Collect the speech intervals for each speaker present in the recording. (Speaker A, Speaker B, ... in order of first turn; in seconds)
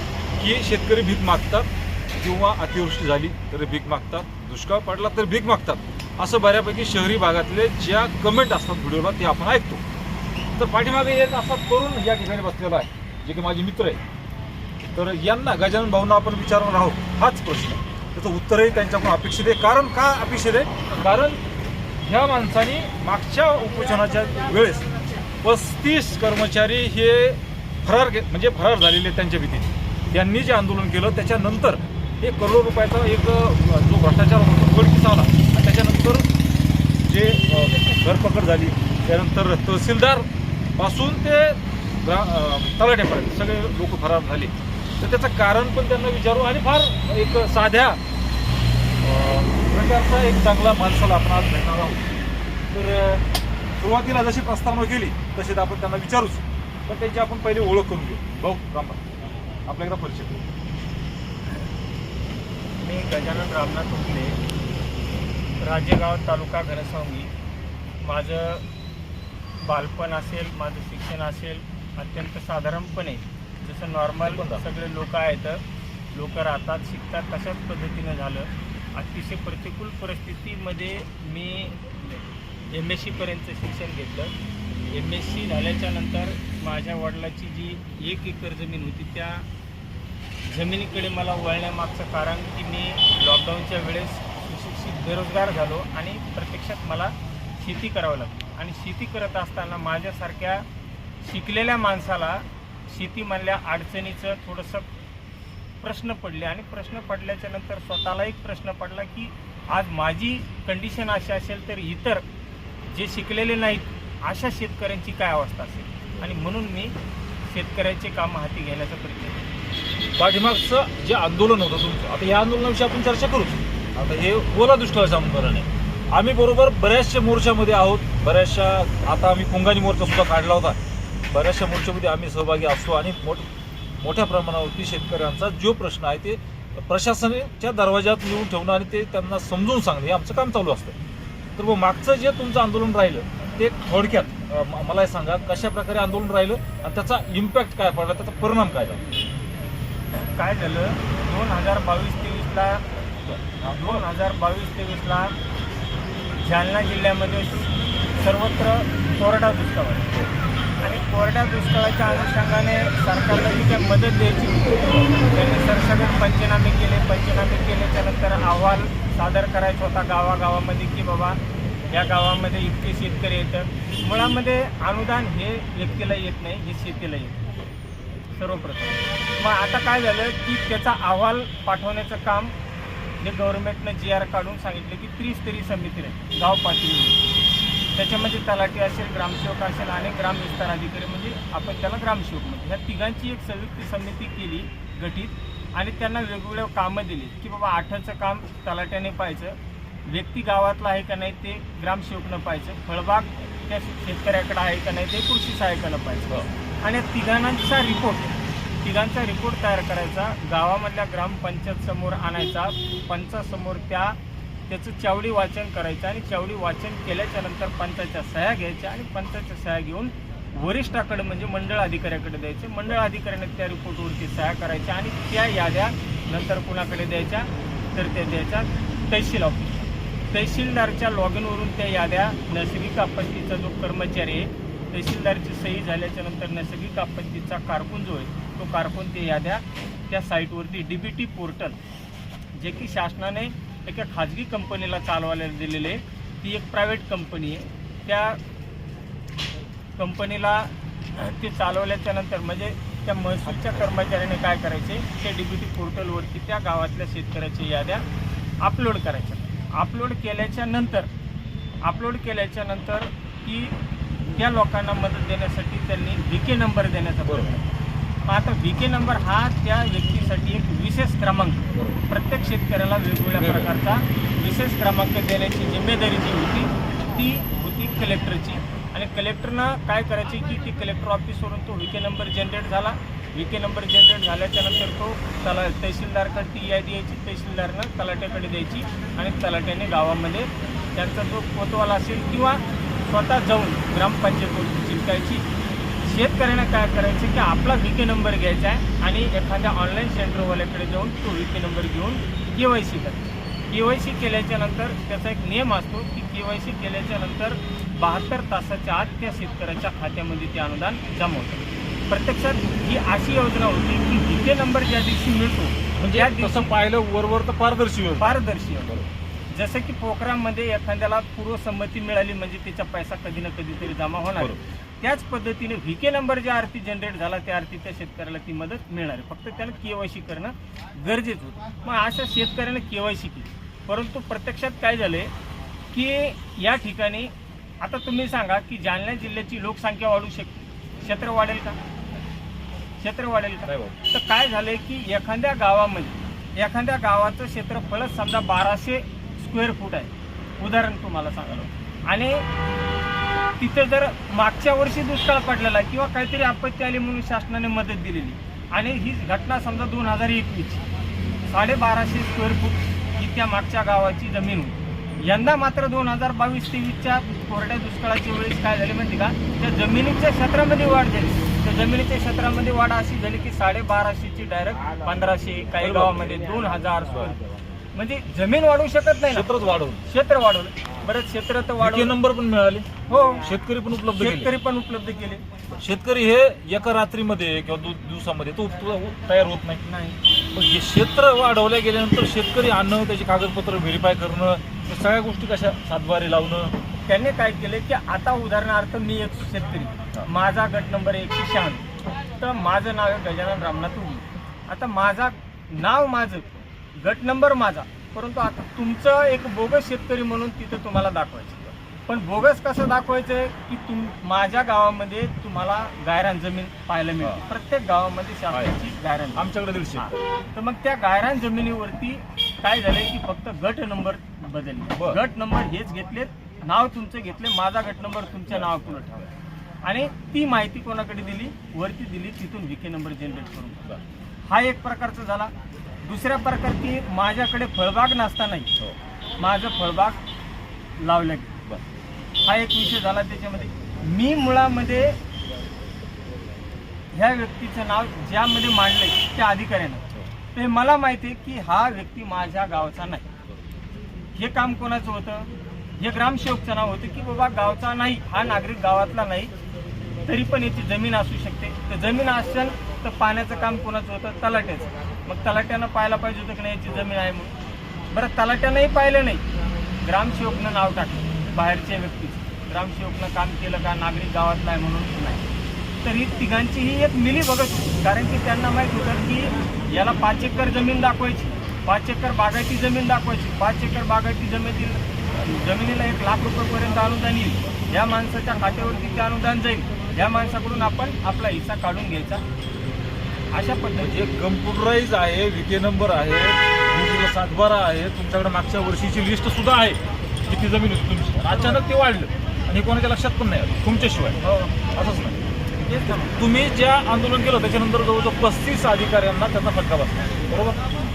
Speaker A: 0.4-9.8, 10.6-14.0, 14.9-21.4, 22.0-24.9, 25.4-36.3, 37.0-48.0, 49.0-52.1, 52.7-53.2, 53.8-59.0, 59.7-60.5, 74.2-74.6, 120.2-130.8, 131.3-133.5, 134.0-140.9, 141.6-149.0, 153.2-154.0, 267.3-267.5, 273.4-273.7, 316.0-319.1, 343.7-344.0, 375.8-376.4, 379.3-380.0, 381.8-382.9, 383.4-384.5, 385.8-389.8, 390.6-396.7, 419.4-420.2, 494.0-504.4, 504.9-505.4, 506.4-510.8
Speaker B: 62.8-64.4, 65.6-67.3, 68.0-68.6, 69.6-75.6, 76.1-81.8, 82.7-84.3, 84.9-89.5, 90.5-100.7, 101.2-104.9, 105.8-112.2, 112.9-117.0, 117.5-119.4, 150.1-152.8, 153.6-155.3, 156.4-160.2, 160.8-171.4, 171.9-177.4, 178.3-182.5, 183.2-187.2, 187.9-214.2, 214.7-241.8, 242.5-248.4, 250.0-258.1, 258.6-261.1, 261.8-263.8, 264.3-267.7, 268.3-295.4, 296.0-316.7, 318.2-318.9, 319.5-335.3, 335.9-341.8, 343.0-352.4, 353.6-360.9, 361.5-377.4, 377.9-379.5, 380.1-382.2, 383.1-383.5, 384.1-385.4, 389.8-390.2, 397.1-401.9, 402.4-429.3, 429.8-433.9, 434.5-438.7, 439.4-440.2, 441.0-441.6, 442.4-445.2, 447.1-453.3, 454.4-459.5, 460.2-467.6, 468.1-469.4, 470.0-475.4, 476.0-492.4, 493.5-494.3, 501.5-501.9, 504.4-504.7, 505.8-506.4